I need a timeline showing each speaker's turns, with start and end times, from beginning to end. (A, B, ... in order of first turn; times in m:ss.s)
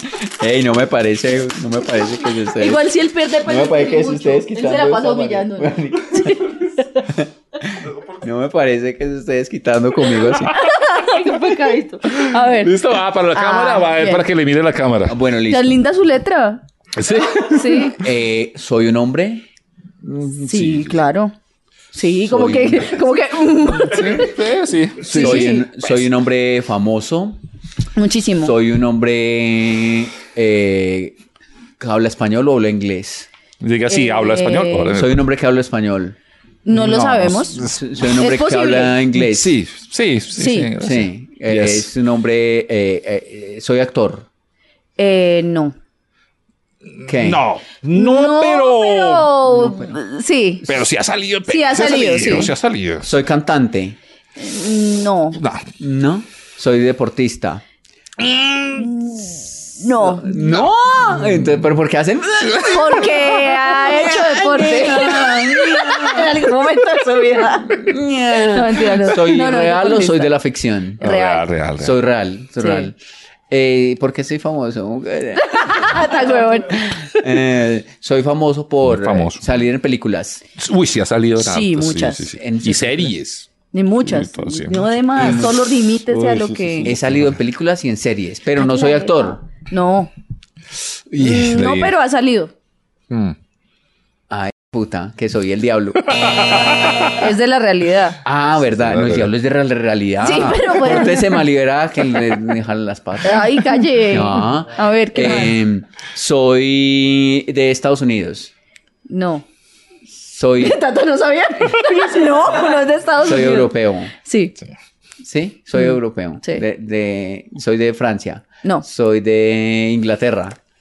0:00.4-0:02.8 A
0:02.5-0:07.1 B
0:03.4-0:06.4 A
0:08.2-0:10.6 A
0:10.5-0:14.3 B
0:12.2-0:15.2 C
0:15.1-0:15.8 A
0:15.5-0:16.6 B
0:17.0-0:17.8 C
0:17.3-0:18.0 B
0:17.8-0:19.4 A
0:20.1-0:20.8 A
0:20.3-0:21.3 B
0:21.9-0:24.4 B
0:22.3-0:23.0 A
0:23.7-0:25.6 C
0:25.0-0:27.4 A
0:25.1-0:25.7 B
0:28.0-0:28.6 B
0:28.4-0:31.2 A
0:31.8-0:33.3 A
0:33.6-0:35.2 C
0:33.9-0:35.0 B
0:34.9-0:36.2 A
0:36.6-0:39.0 B
0:36.7-0:37.8 C
0:37.6-0:39.6 A
0:39.1-0:41.9 C
0:40.4-0:40.7 B
0:40.8-0:44.3 A
0:45.0-0:45.8 B
0:47.0-0:49.5 C
0:47.1-0:47.4 A
0:47.9-0:50.7 B
0:50.6-0:53.1 C
0:51.5-0:52.5 B
0:53.0-0:54.0 A
0:54.4-0:55.4 B
0:55.3-0:55.7 C
0:55.8-0:57.6 A
0:58.2-0:58.9 C
0:58.8-1:00.6 B
1:00.1-1:06.3 A
1:02.4-1:03.2 C
1:02.6-1:10.4 B
1:07.8-1:11.1 A
1:11.0-1:11.5 B
1:11.0-1:12.0 C
1:11.8-1:13.0 A
1:12.6-1:12.9 B
1:13.5-1:16.1 A
1:15.4-1:17.0 B
1:16.7-1:20.4 A
1:18.8-1:19.4 C
1:20.6-1:23.5 C
1:21.4-1:22.3 B
1:22.4-1:23.1 A
1:23.7-1:26.9 B
1:24.0-1:25.6 C
1:26.1-1:27.4 C
1:26.8-1:29.4 A
1:28.6-1:30.1 B
1:31.1-1:31.9 C
1:31.2-1:32.5 B
1:33.1-1:33.4 C
1:34.3-1:36.0 A
1:36.1-1:37.2 C
1:37.0-1:38.2 B
1:38.2-1:43.4 A
1:38.6-1:39.3 C
1:40.2-1:41.5 B
1:43.2-1:45.6 B
1:44.0-1:48.5 A
1:49.1-1:49.4 B
1:50.2-1:50.8 A
1:50.6-1:54.6 B
1:53.2-1:54.1 A
1:55.2-2:00.6 A